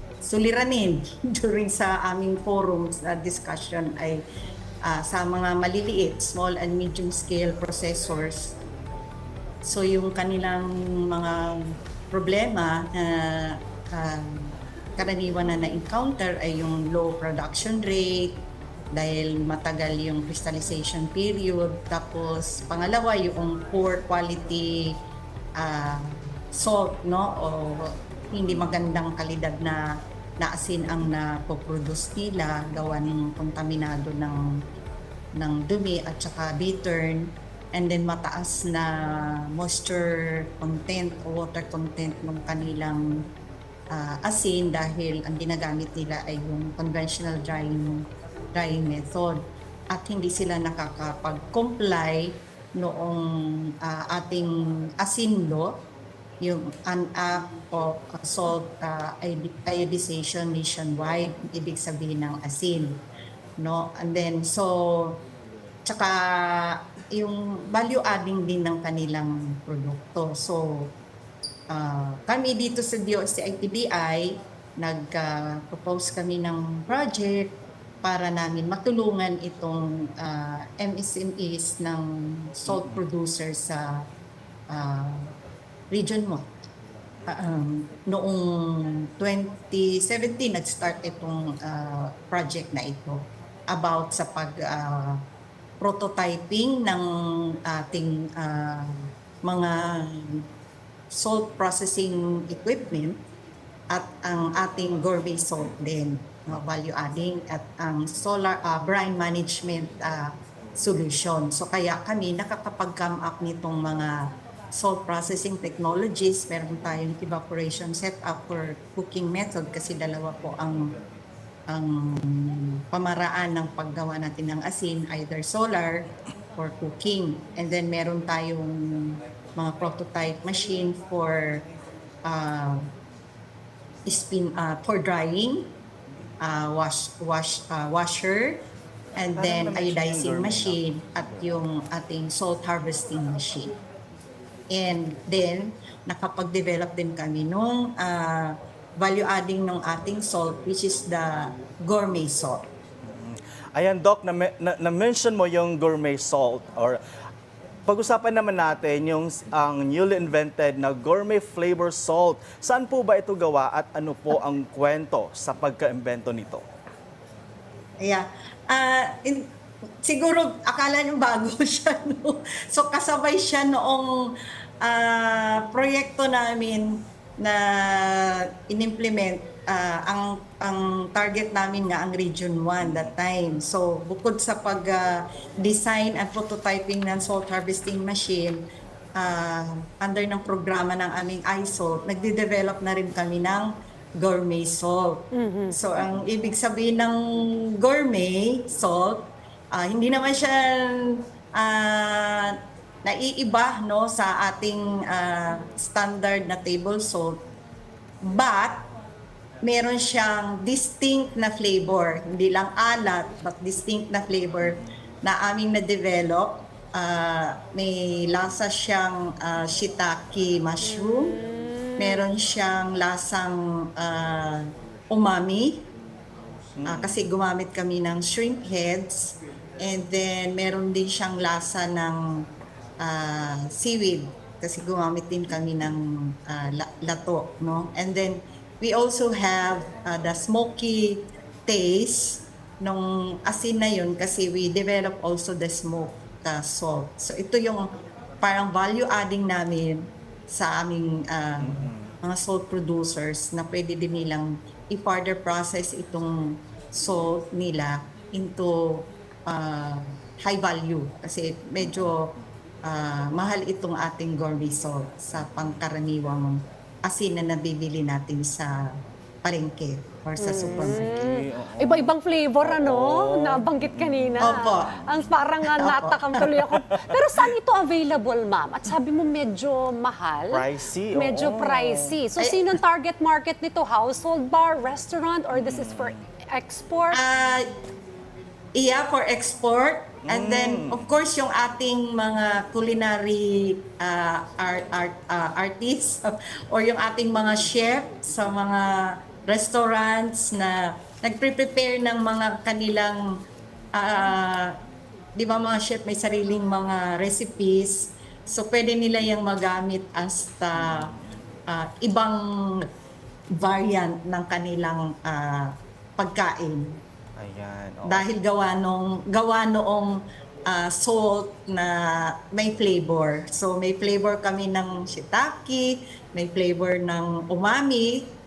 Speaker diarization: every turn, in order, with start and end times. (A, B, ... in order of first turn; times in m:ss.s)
0:00.2-0:04.2 A
0:04.8-0:08.5 A
0:09.6-0:11.6 A
0:12.1-0:18.3 A
0:18.9-0:24.9 A
0:25.6-0:29.8 A
0:30.4-0:34.4 A
0:35.4-0:43.0 A
0:43.9-0:48.0 A
0:48.6-0:49.4 A
0:49.9-0:55.7 A
0:56.4-1:03.0 A
1:03.6-1:05.2 A
1:05.9-1:10.9 A
1:11.7-1:17.5 A
1:18.0-1:24.0 A
1:22.7-1:23.0 B
1:24.7-1:25.3 A
1:25.9-1:26.4 A
1:27.3-1:35.2 A
1:35.8-1:40.4 A
1:41.1-1:43.2 A
1:43.9-1:54.1 A
1:54.8-2:00.8 A
2:01.7-2:06.0 A
2:06.6-2:11.6 A
2:12.3-2:12.8 A
2:14.1-2:15.6 A
2:16.4-2:18.6 A
2:19.2-2:23.7 A
2:19.3-2:21.5 B
2:24.7-2:32.6 A
2:33.1-2:37.0 B
2:37.9-2:46.6 B
2:48.0-2:49.4 A
2:50.0-2:54.1 A
2:54.8-3:08.6 A
3:02.8-3:03.1 B
3:09.2-3:17.2 A
3:15.3-3:15.8 C
3:17.8-3:19.2 A
3:19.7-3:20.9 A
3:21.6-3:22.5 A
3:23.1-3:27.4 A
3:28.2-3:28.8 A
3:29.6-3:41.3 A
3:40.8-3:42.2 C
3:42.0-3:45.8 A
3:46.8-3:47.2 B
3:46.8-3:52.2 A
3:53.0-4:07.9 A
4:08.4-4:22.2 A
4:11.6-4:12.1 B
4:22.9-4:28.7 A
4:29.4-4:31.1 A
4:30.4-4:40.6 C
4:30.9-4:32.1 B
4:32.6-4:35.3 B
4:34.4-4:35.0 A
4:35.8-4:36.3 A
4:36.4-4:37.1 B
4:40.5-4:42.2 B
4:41.1-4:47.2 C
4:45.5-4:46.2 B
4:47.1-4:47.7 A
4:48.8-4:58.9 A
4:50.2-4:51.1 B
4:59.5-5:03.2 A
5:04.0-5:04.7 A
5:05.4-5:11.1 A
5:10.8-5:11.1 B
5:11.7-5:12.4 A
5:13.6-5:16.9 A
5:17.4-5:18.3 B
5:18.0-5:20.2 A
5:20.7-5:28.2 A